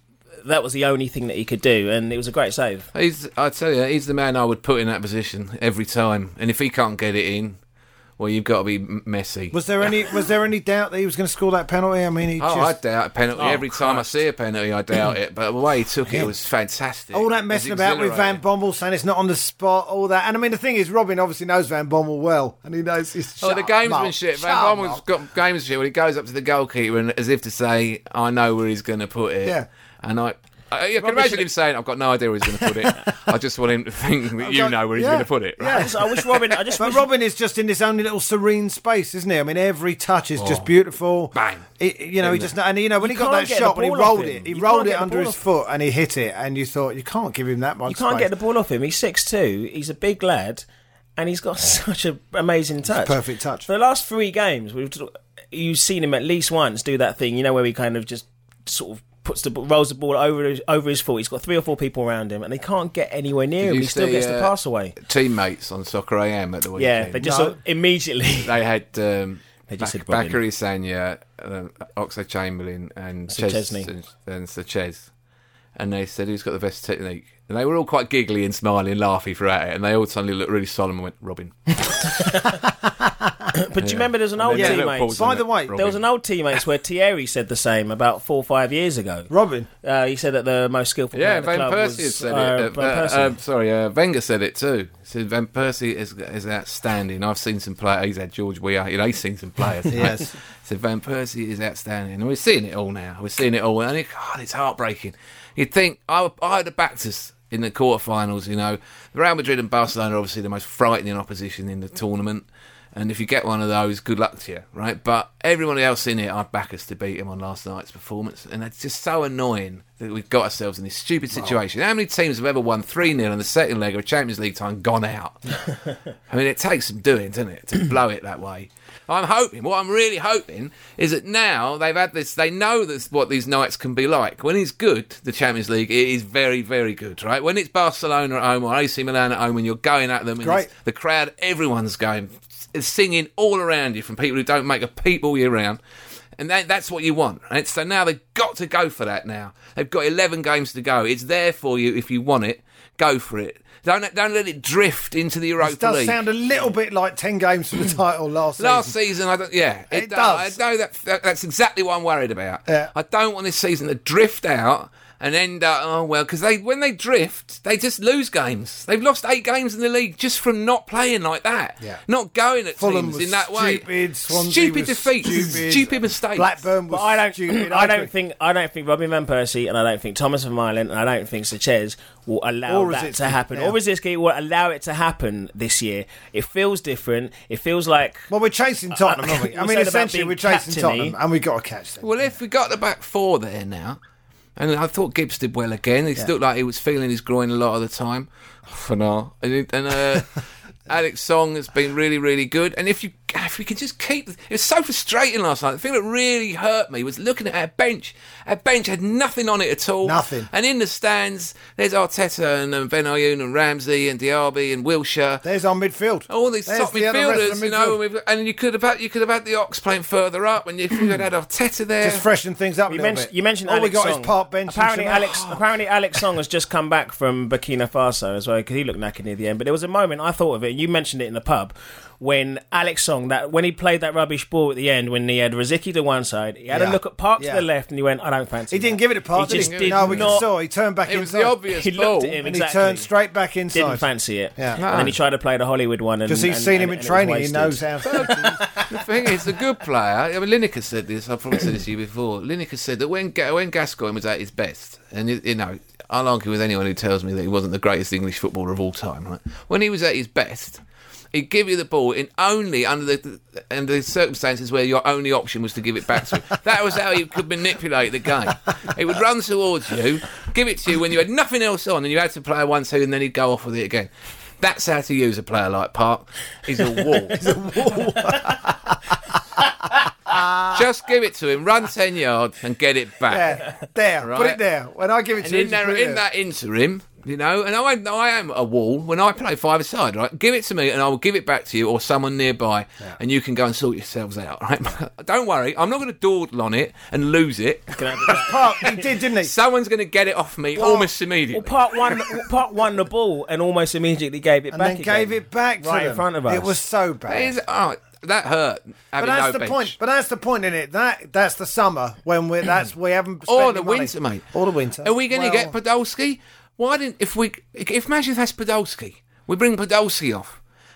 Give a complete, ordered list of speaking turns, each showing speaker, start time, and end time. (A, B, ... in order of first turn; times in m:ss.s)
0:00.4-0:02.9 A
0:02.9-0:07.6 B
0:08.2-0:09.6 B
0:09.5-0:12.7 C
0:12.4-0:18.4 B
0:13.4-0:14.1 A
0:17.1-0:25.0 C
0:23.4-0:36.5 B
0:31.0-0:31.5 C
0:32.6-0:33.0 C
0:34.4-0:35.9 C
0:35.7-0:37.0 A
0:36.8-0:48.3 C
0:40.4-0:40.7 B
0:41.3-0:41.7 B
0:42.2-0:42.5 B
0:43.0-0:45.4 A
0:47.9-0:50.6 A
0:51.2-1:05.0 A
0:52.9-0:53.7 C
1:03.6-1:07.2 B
1:06.8-1:08.6 A
1:07.2-1:07.6 C
1:08.4-1:15.1 B
1:09.7-1:10.4 A
1:13.3-1:13.9 A
1:15.8-1:22.3 B
1:22.2-1:22.6 A
1:23.5-1:29.3 A
1:23.8-1:26.0 B
1:24.5-1:25.8 C
1:29.3-1:29.7 C
1:29.8-1:33.4 A
1:31.1-2:05.6 B
1:39.9-1:40.3 C
2:06.3-2:25.8 B
2:20.4-2:20.7 C
2:26.4-2:36.2 B
2:35.6-2:39.0 C
2:38.6-2:56.6 B
2:39.9-2:40.6 C
2:52.8-2:58.1 C
2:56.9-3:08.3 A
3:02.7-3:03.8 C
3:08.3-3:12.3 C
3:08.9-3:11.2 A
3:12.0-3:14.0 B
3:14.6-3:20.4 B
3:20.9-3:35.4 B
3:30.0-3:30.5 C
3:35.4-3:38.0 C
3:36.3-3:42.2 B
3:42.0-3:45.5 C
3:42.9-4:00.5 A
3:56.7-3:57.6 C
3:58.7-4:01.6 C
3:59.4-4:00.5 B
4:01.1-4:02.4 B
4:01.7-4:03.1 A
4:02.4-4:04.0 C
4:03.7-4:08.6 A
4:04.8-4:05.2 B
4:06.3-4:08.6 C
4:08.0-4:20.8 B
4:21.3-4:37.5 B
4:37.3-4:39.0 C
4:40.3-4:40.8 C
4:40.6-4:43.7 B
4:43.3-4:46.2 C
4:44.2-4:44.6 B
4:45.4-4:58.4 B
4:58.0-4:59.0 A
4:58.3-4:59.5 C
4:59.4-5:02.2 B
5:00.8-5:01.1 C
5:01.5-5:06.8 A
5:04.7-5:07.6 C
5:07.3-5:10.0 B
5:09.2-5:15.8 C
5:13.5-5:14.5 B
5:15.0-5:20.6 B